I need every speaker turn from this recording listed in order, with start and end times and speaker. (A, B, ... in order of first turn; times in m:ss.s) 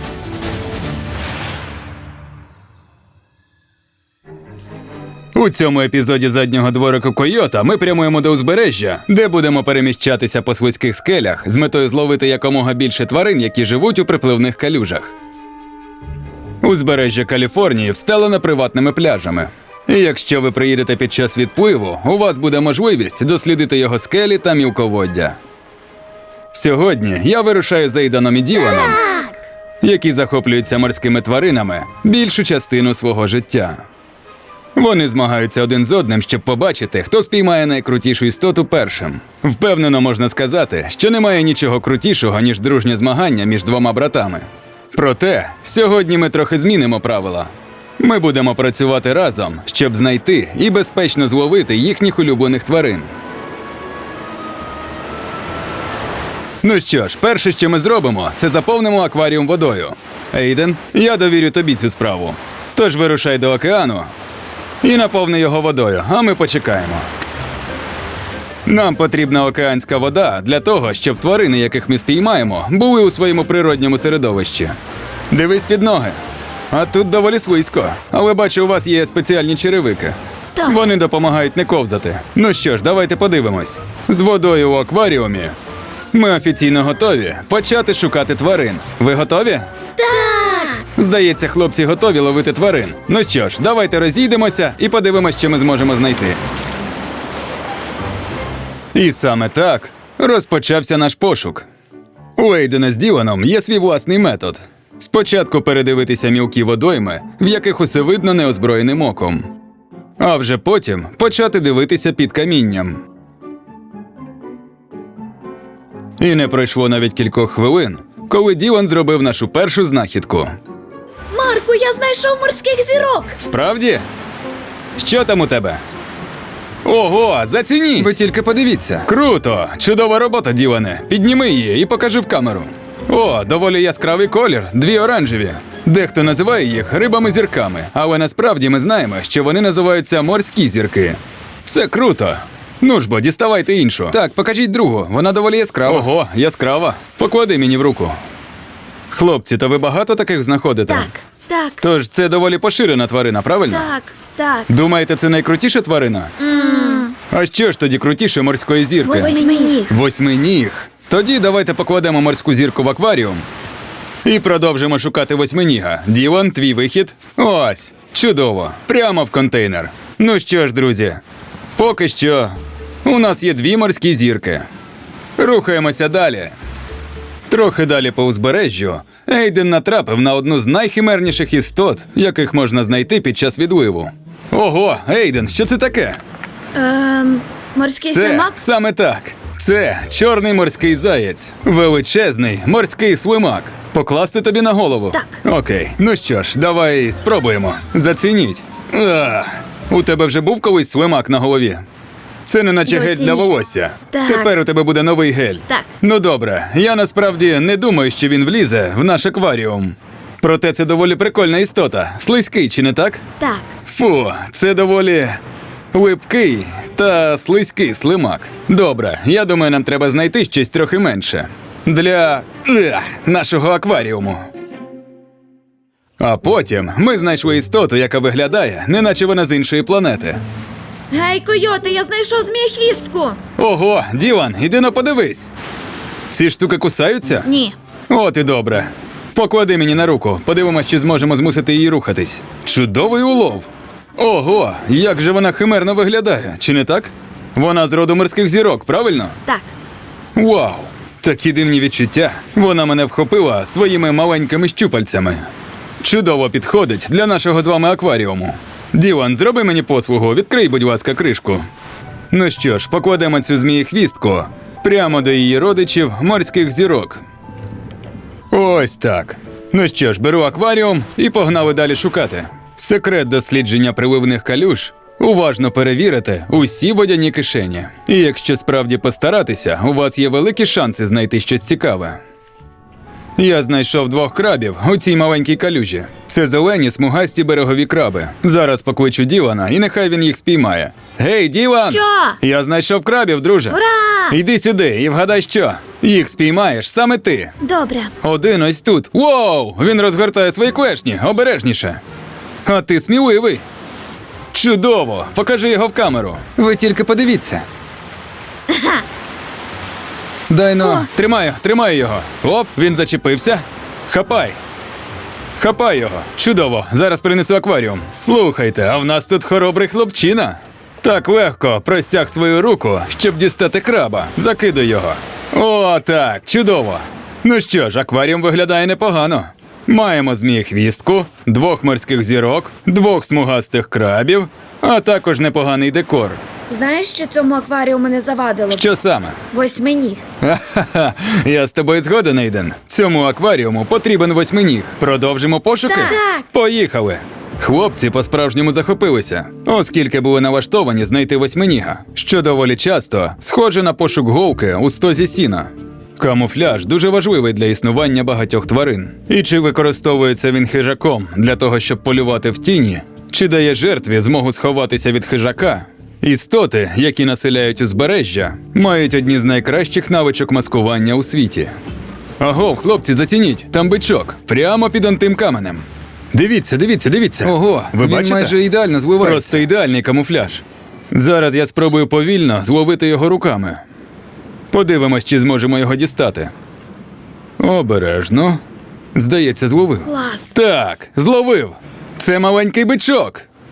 0:05.4-0:15.1 A
0:16.6-0:25.4 A
0:26.5-0:29.1 A
0:28.6-0:29.3 B
0:29.8-0:33.8 A
0:34.8-0:53.1 A
0:56.6-1:04.1 A
1:04.8-1:07.1 A
1:08.7-1:14.8 A
1:15.3-1:16.2 A
1:16.7-1:25.6 A
1:26.1-1:29.7 A
1:30.0-1:30.8 B
1:30.9-1:36.4 A
1:38.9-1:41.7 A
1:42.4-1:49.5 A
1:50.2-1:53.0 A
1:56.2-2:00.5 A
2:01.3-2:03.3 B
2:03.4-2:04.0 A
2:05.0-2:05.8 A
2:06.8-2:28.2 A
2:29.1-2:31.1 A
2:30.9-2:31.8 B
2:31.8-2:33.9 A
2:33.7-2:34.7 B
2:34.7-2:36.4 A
2:36.4-2:37.1 B
2:37.3-2:43.4 A
2:39.0-2:39.9 B
2:44.2-2:51.2 A
2:51.8-2:54.6 A
2:55.4-2:56.6 A
2:57.5-3:06.2 A
3:06.7-3:08.6 B
3:08.0-3:21.8 A
3:15.1-3:15.4 B
3:22.5-3:33.2 A
3:22.9-3:23.5 B
3:24.1-3:24.5 B
3:33.4-3:33.7 B
3:33.9-3:35.4 A
3:35.9-3:44.5 A
3:46.2-3:50.4 A
3:51.1-3:53.4 B
3:53.6-3:55.5 A
3:56.3-3:57.5 A
3:57.4-3:57.8 B
3:58.1-4:09.4 A
4:10.4-4:15.5 A
4:16.0-4:21.6 A
4:22.3-4:27.2 A
4:28.5-4:42.2 A
4:43.4-4:57.5 A
4:51.8-4:52.4 B
4:53.7-4:54.4 B
4:57.6-4:58.1 B
4:58.2-5:02.0 A
5:02.6-5:03.6 A
5:04.5-5:07.6 A
5:08.7-5:09.0 B
5:10.5-5:14.6 A
5:10.8-5:11.1 B
5:15.6-5:36.4 A
5:36.7-5:38.9 B
5:38.7-5:39.4 A
5:39.5-5:40.2 B
5:40.4-6:11.7 A
5:45.9-5:46.4 B
6:12.4-6:18.6 A
6:17.4-6:19.6 C
6:19.2-6:23.8 A
6:24.7-6:26.5 A
6:27.6-6:28.6 A
6:29.2-6:33.5 A
6:30.0-6:30.5 B